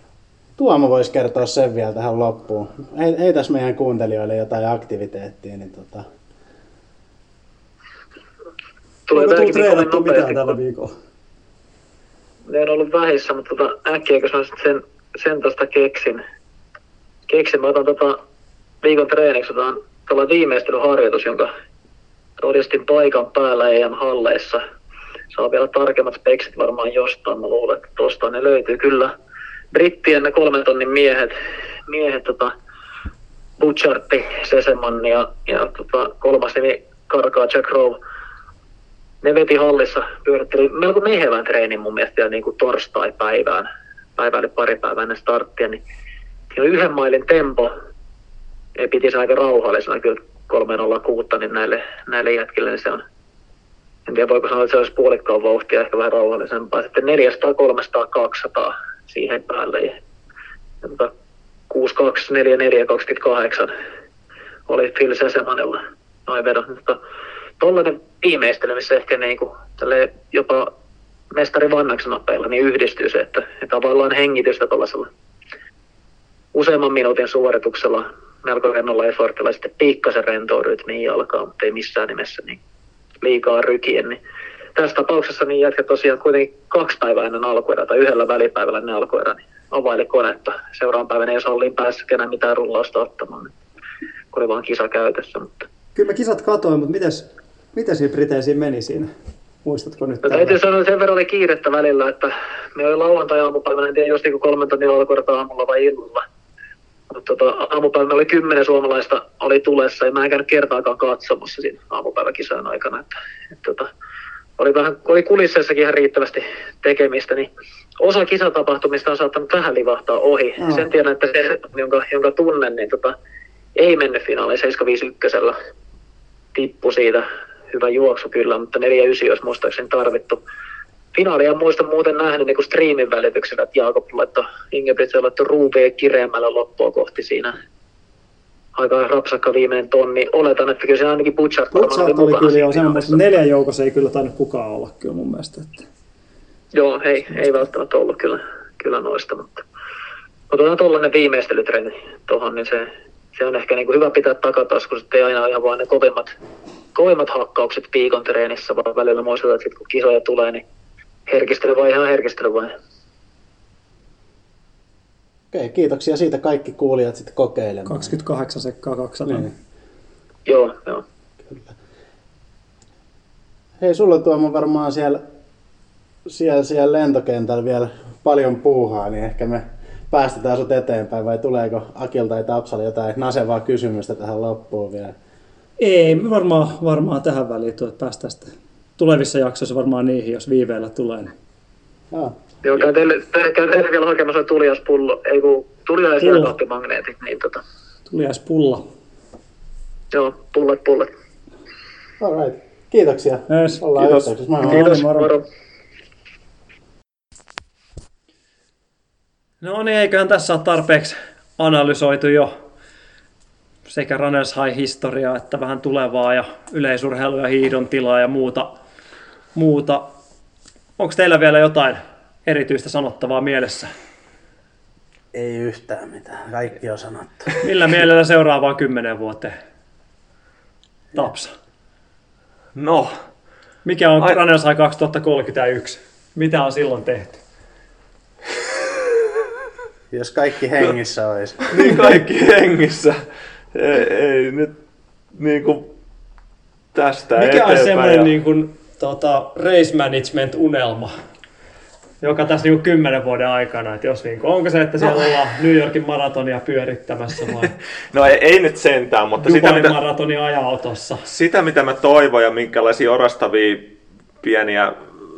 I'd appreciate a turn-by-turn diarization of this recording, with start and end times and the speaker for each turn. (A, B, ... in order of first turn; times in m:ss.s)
0:00.6-0:06.0 A
0:09.1-0:10.5 B
0:09.1-0:10.9 C
0:12.5-0:16.2 B
0:17.3-0:18.2 B
0:18.8-0:21.5 B
0:22.4-0:24.6 B
0:25.3-0:29.1 B
0:29.7-0:31.3 B
0:31.9-0:32.5 B
0:33.6-0:38.0 B
0:39.2-0:45.8 B
0:46.5-0:47.7 B
0:48.8-0:53.0 B
0:54.1-1:00.0 B
1:00.8-1:01.1 B
1:01.7-1:03.7 B
1:04.7-1:07.0 B
1:07.6-1:10.7 B
1:11.3-1:15.1 B
1:16.5-1:22.6 B
1:23.2-1:24.2 B
1:24.8-1:33.5 B
1:34.3-1:35.7 B
1:35.9-1:39.1 C
1:39.6-1:40.6 C
1:40.2-1:46.2 B
1:47.1-1:53.9 B
1:54.6-1:57.5 B
1:58.0-2:03.1 B
2:03.8-2:05.6 B
2:06.5-2:10.4 B
2:11.1-2:17.6 B
2:18.7-2:23.4 B
2:21.7-2:25.8 C
2:26.7-2:29.6 B
2:30.5-2:36.3 B
2:36.9-2:40.6 B
2:41.3-2:42.7 B
2:45.5-2:48.1 A
2:47.8-2:49.5 C
2:50.4-2:51.0 B
2:53.8-2:55.2 A
2:56.2-3:05.1 A
3:05.8-3:11.3 C
3:12.6-3:17.6 B
3:16.2-3:16.5 C
3:18.1-3:18.8 C
3:20.1-3:21.1 B
3:22.2-3:24.9 A
3:23.5-3:25.3 C
3:24.7-3:25.4 B
3:29.6-3:32.5 C
3:33.9-3:38.7 C
3:39.5-3:40.0 C
3:41.0-3:43.9 C
3:45.3-3:47.5 A
3:47.6-3:49.5 C
3:51.1-3:51.5 C
3:52.7-3:53.2 D
3:53.8-3:57.4 C
4:00.1-4:01.6 A
4:01.7-4:04.7 D
4:05.3-4:05.9 D
4:06.9-4:08.3 D
4:07.4-4:11.1 C
4:12.2-4:17.7 C
4:17.6-4:20.0 D
4:19.4-4:21.2 C
4:21.2-4:24.9 D